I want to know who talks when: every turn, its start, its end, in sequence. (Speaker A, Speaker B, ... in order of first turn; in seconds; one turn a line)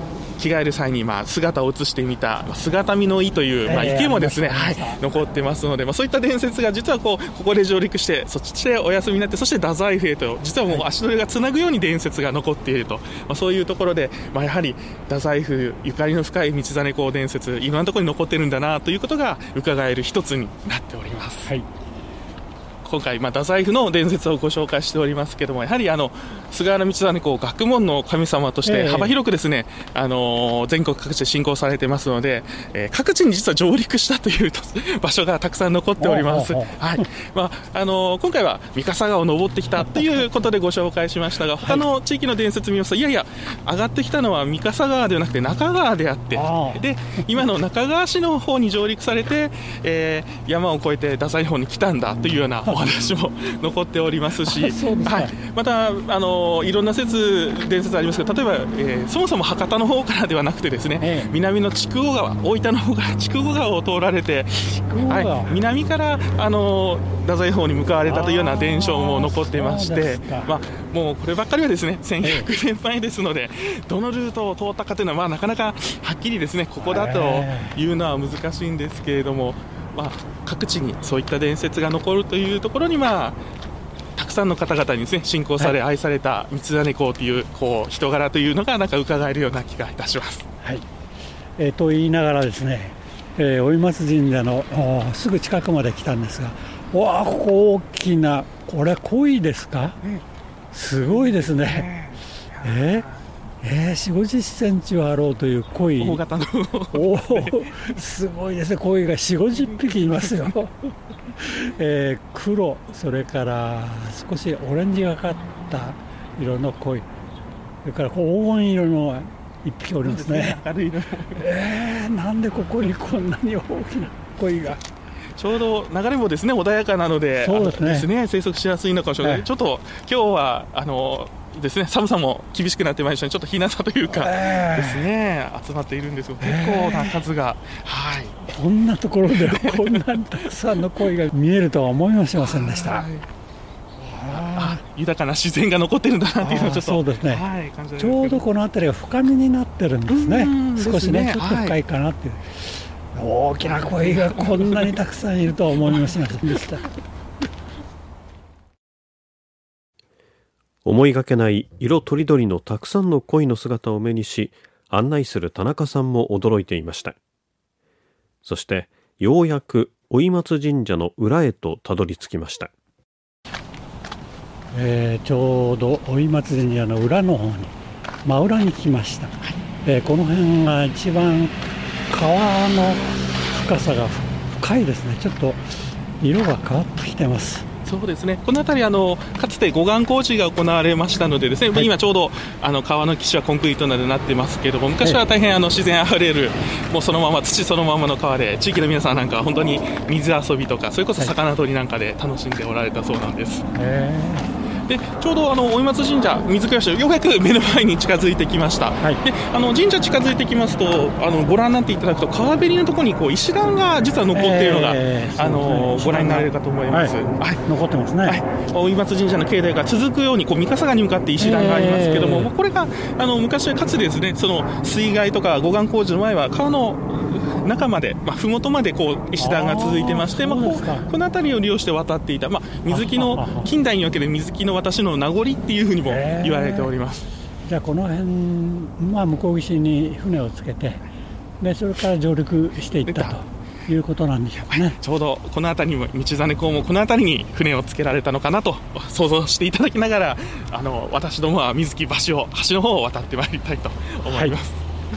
Speaker A: 0.4-21.5
Speaker B: 3.6-5.0
Speaker A: 22.8-83.4
Speaker B: 28.6-29.1
Speaker B: 36.0-37.0
Speaker B: 39.8-40.2
Speaker B: 46.4-46.8
Speaker B: 54.4-55.4
Speaker B: 61.0-61.4
Speaker B: 64.7-65.6
Speaker B: 68.1-70.6
Speaker B: 72.2-72.5
Speaker B: 76.8-77.8
Speaker A: 84.2-90.5
Speaker B: 90.6-90.9
Speaker B: 91.6-100.0
Speaker B: 100.7-101.9
Speaker A: 101.0-103.2
Speaker B: 102.6-103.1
Speaker B: 103.6-106.2
Speaker A: 106.0-108.0
Speaker B: 106.9-110.7
Speaker A: 110.0-110.5
Speaker B: 111.4-117.1
Speaker B: 117.8-120.6
Speaker A: 120.0-121.5
Speaker B: 121.3-124.8
Speaker A: 125.4-138.4
Speaker B: 127.4-128.1
Speaker B: 134.1-135.1
Speaker B: 136.4-137.2
Speaker B: 138.5-143.1
Speaker A: 139.3-140.8
Speaker A: 142.4-143.3
Speaker B: 144.0-144.8
Speaker A: 144.5-148.4
Speaker B: 146.4-147.4
Speaker B: 148.0-156.9
Speaker A: 150.1-151.8
Speaker A: 153.6-154.9
Speaker C: 160.8-167.2
Speaker C: 168.4-172.7
Speaker B: 174.7-185.6
Speaker B: 186.2-187.7
Speaker A: 187.8-203.7
Speaker B: 203.7-204.5
Speaker A: 204.9-217.6
Speaker B: 214.3-218.4
Speaker A: 218.2-237.3
Speaker B: 221.4-222.5
Speaker B: 229.4-231.1
Speaker B: 232.9-233.7
Speaker B: 236.1-236.9
Speaker B: 237.6-241.0
Speaker B: 241.6-245.0
Speaker A: 243.1-243.4
Speaker A: 244.6-254.8
Speaker B: 254.2-254.6